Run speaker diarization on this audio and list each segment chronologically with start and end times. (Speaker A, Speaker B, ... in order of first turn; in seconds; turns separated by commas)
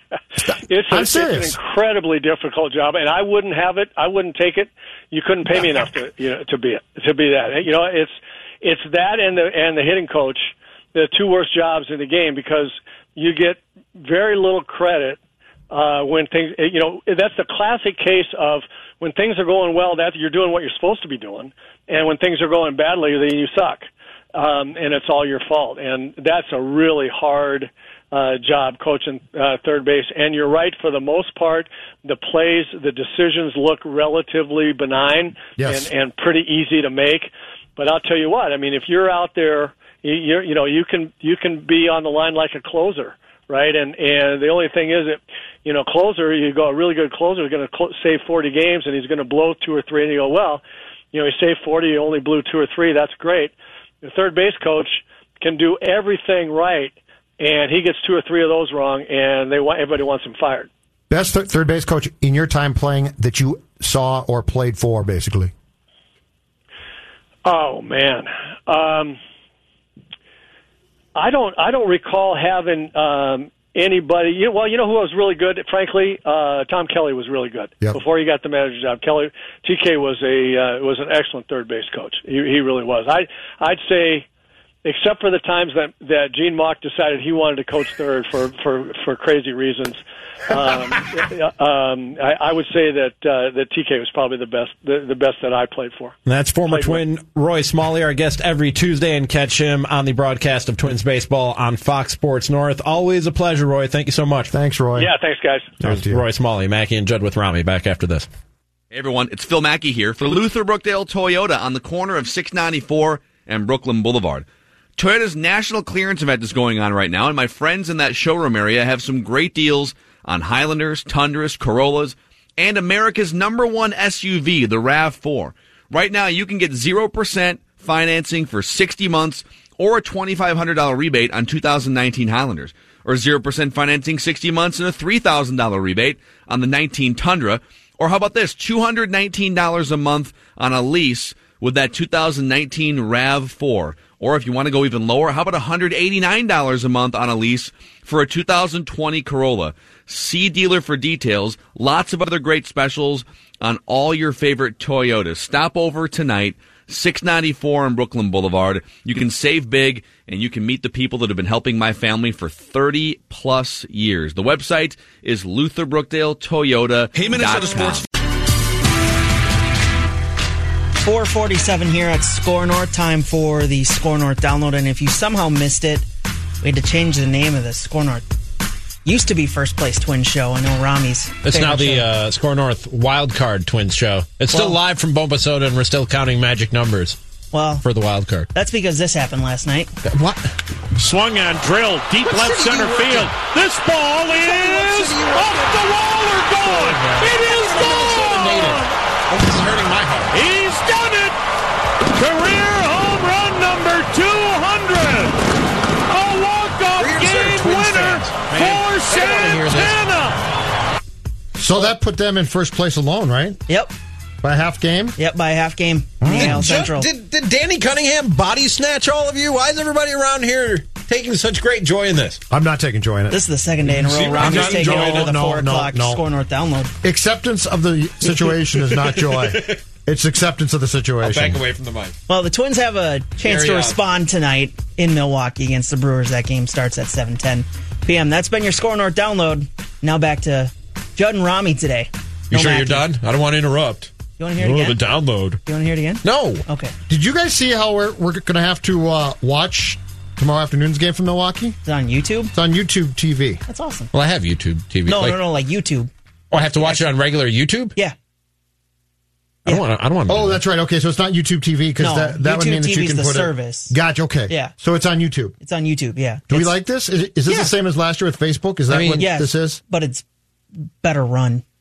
Speaker A: 0.4-1.6, Speaker B: 0.7-15.2, Speaker B: 15.7-60.7, Speaker A: 35.6-35.9, Speaker A: 61.1-65.5, Speaker B: 67.4-69.2, Speaker B: 71.1-84.2, Speaker B: 84.8-96.1, Speaker C: 96.2-104.5, Speaker B: 96.7-97.0, Speaker A: 104.5-105.1, Speaker B: 105.0-105.8, Speaker A: 105.8-106.2, Speaker C: 105.8-108.3, Speaker D: 108.9-114.5, Speaker D: 115.0-168.1, Speaker C: 167.1-168.1, Speaker E: 171.0-176.1, Speaker E: 176.6-178.2, Speaker E: 179.0-182.1, Speaker C: 181.4-187.2, Speaker E: 187.5-187.8, Speaker C: 187.8-188.5, Speaker E: 188.5-189.9, Speaker C: 190.0-190.5, Speaker F: 190.9-198.9, Speaker C: 192.2-193.4, Speaker C: 194.3-195.7, Speaker C: 196.6-200.4, Speaker F: 200.3-201.3, Speaker F: 202.1-205.3, Speaker F: 206.1-210.4, Speaker C: 207.0-210.0, Speaker A: 211.6-213.6, Speaker E: 213.7-213.9, Speaker A: 214.4-215.2, Speaker E: 215.2-217.1, Speaker A: 216.2-216.7, Speaker C: 216.3-222.4, Speaker A: 222.5-223.4, Speaker E: 223.3-226.9, Speaker C: 223.9-225.4, Speaker A: 224.4-226.2, Speaker A: 227.0-231.6, Speaker C: 228.3-229.8, Speaker C: 231.2-232.1, Speaker E: 232.3-243.0, Speaker C: 233.4-234.0, Speaker C: 242.5-245.6, Speaker E: 244.4-245.0, Speaker E: 245.7-246.9, Speaker C: 246.2-246.6, Speaker A: 247.1-251.8, Speaker E: 251.8-252.5, Speaker A: 252.5-253.6, Speaker E: 253.7-254.1, Speaker C: 254.1-255.4, Speaker E: 255.1-257.0, Speaker C: 256.5-257.9, Speaker C: 259.6-260.6, Speaker A: 260.3-265.5, Speaker E: 262.0-263.9, Speaker E: 265.6-266.7, Speaker A: 266.5-269.8, Speaker C: 268.9-269.2, Speaker E: 269.2-270.2, Speaker E: 270.8-271.6